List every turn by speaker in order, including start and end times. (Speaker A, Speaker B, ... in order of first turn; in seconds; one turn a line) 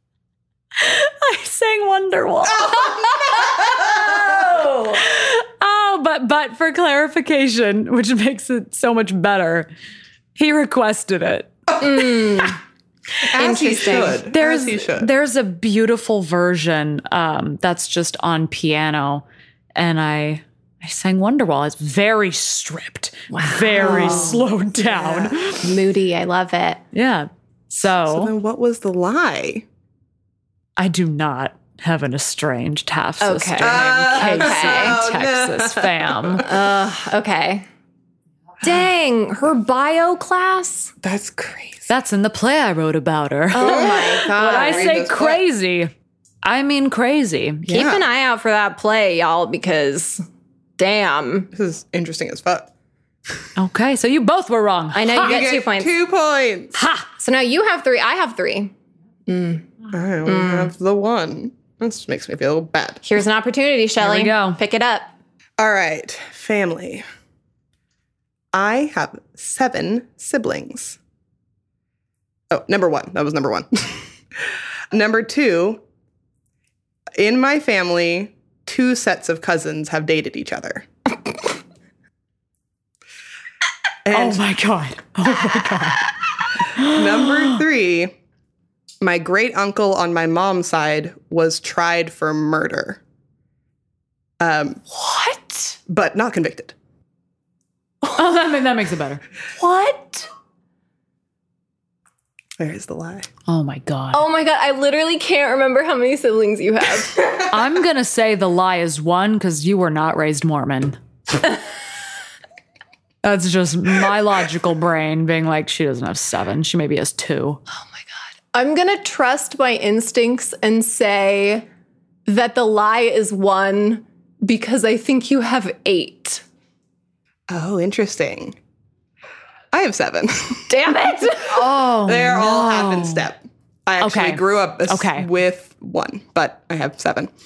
Speaker A: 0.8-9.7
Speaker B: 2.6-4.3
Speaker A: 10.4-11.7
Speaker C: 11.8-12.6
Speaker B: 13.3-15.1
Speaker C: 13.4-14.2
Speaker A: 14.0-25.7
Speaker C: 23.3-26.8
Speaker B: 23.9-24.2
Speaker B: 24.8-25.3
Speaker A: 26.9-28.3
Speaker B: 28.1-29.6
Speaker A: 30.8-36.4
Speaker C: 33.2-35.0
Speaker B: 33.6-36.5
Speaker C: 36.4-37.6
Speaker C: 38.6-40.9
Speaker B: 41.0-41.9
Speaker A: 41.9-45.9
Speaker C: 43.5-45.0
Speaker B: 43.6-45.4
Speaker A: 46.4-47.7
Speaker B: 47.7-48.0
Speaker C: 47.7-50.2
Speaker C: 50.8-51.5
Speaker B: 51.5-52.7
Speaker A: 53.5-55.4
Speaker C: 54.9-55.9
Speaker B: 55.2-56.7
Speaker A: 56.7-57.1
Speaker C: 57.2-58.7
Speaker C: 59.3-59.7
Speaker B: 59.9-63.0
Speaker C: 60.2-60.7
Speaker C: 63.0-65.1
Speaker A: 64.0-64.6
Speaker B: 65.6-67.0
Speaker B: 68.5-71.0
Speaker B: 72.5-74.1
Speaker B: 74.9-75.8
Speaker B: 77.2-80.9
Speaker B: 84.0-84.4
Speaker A: 84.1-87.6
Speaker B: 86.8-88.1
Speaker B: 89.0-93.0
Speaker B: 94.4-94.8
Speaker C: 94.9-95.8
Speaker B: 95.9-96.7
Speaker A: 98.1-99.2
Speaker C: 99.6-100.3
Speaker B: 102.6-103.3
Speaker A: 103.5-104.3
Speaker C: 104.1-107.5
Speaker A: 107.4-111.0
Speaker A: 113.2-117.6
Speaker C: 118.5-121.7
Speaker C: 122.2-126.4
Speaker B: 127.5-128.6
Speaker B: 129.7-131.1
Speaker C: 130.7-131.6
Speaker A: 131.4-133.3
Speaker B: 132.0-137.3
Speaker A: 134.0-135.3